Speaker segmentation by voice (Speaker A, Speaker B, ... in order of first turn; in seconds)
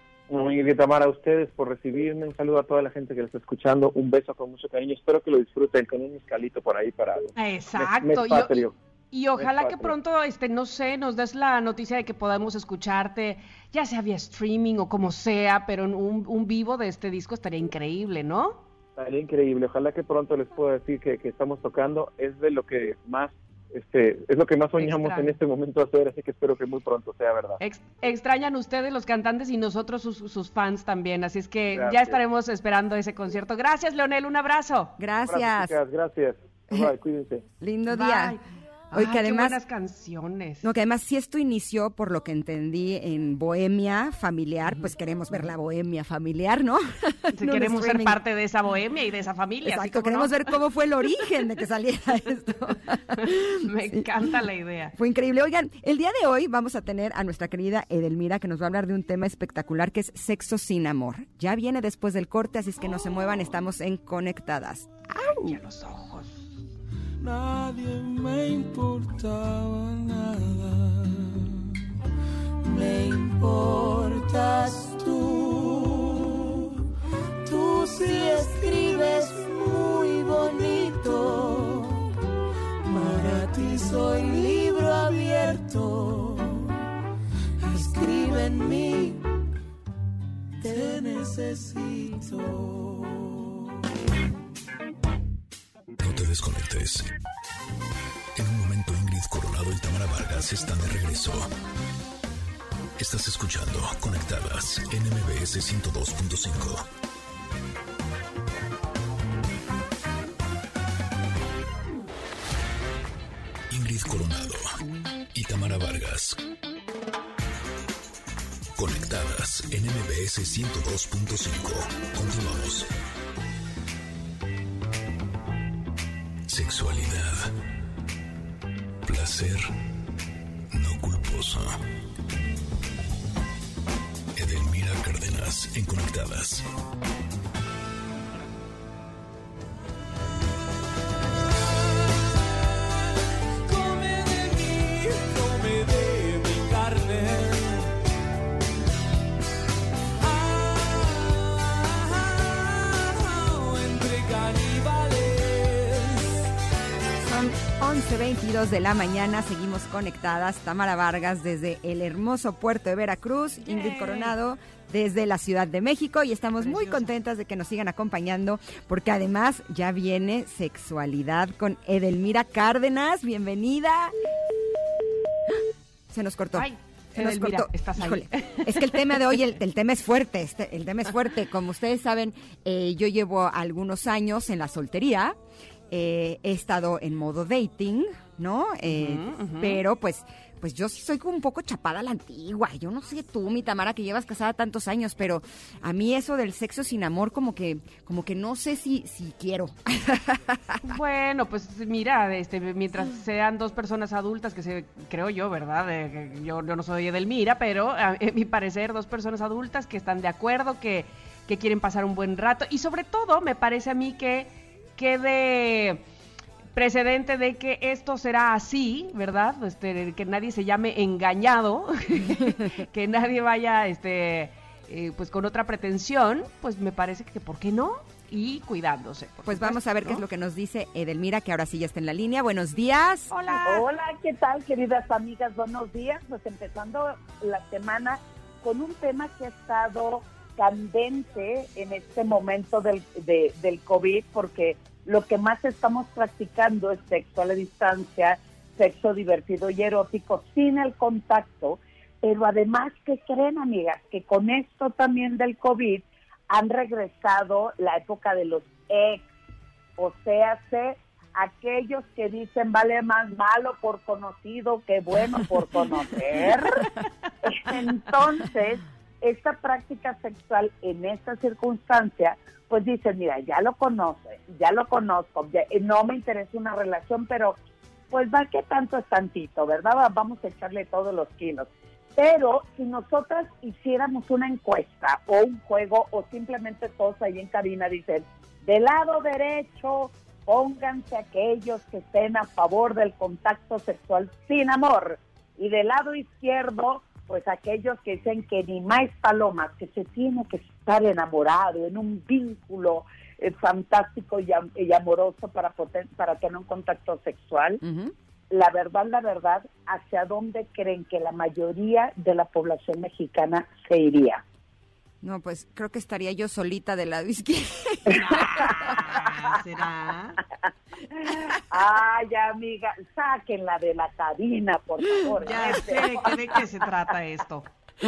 Speaker A: 0.3-8.8, 9.4-9.9, 19.0-27.6, 31.7-32.2, 35.2-37.5
Speaker B: 7.4-18.6, 24.8-25.4, 27.6-35.0, 37.9-40.7, 47.4-50.5, 53.2-54.9, 65.3-66.5, 163.6-164.4, 166.6-167.1, 176.6-179.4, 188.9-189.8, 200.8-216.0, 216.8-230.2, 233.3-233.9, 318.1-320.4, 325.4-327.7
Speaker C: 35.0-35.8, 37.6-38.4, 38.9-39.6, 40.6-48.2, 49.6-54.1, 55.0-65.6, 157.2-174.1, 176.1-185.4, 185.9-200.6, 229.4-233.3, 307.8-308.1, 315.2-319.2
Speaker D: 67.2-71.5, 72.6-76.6, 77.5-82.1, 82.9-86.8, 87.7-89.3, 90.6-93.5, 143.6-147.9, 150.2-156.3
Speaker E: 96.0-97.1, 98.3-101.5, 103.0-106.9, 113.7-114.7, 115.3-116.4, 118.8-122.9, 126.5-127.5, 129.1-129.7, 130.7-131.8, 134.4-136.7
Speaker F: 233.6-259.3, 260.0-266.9, 267.4-277.6, 278.1-307.8, 308.5-314.4, 321.7-326.6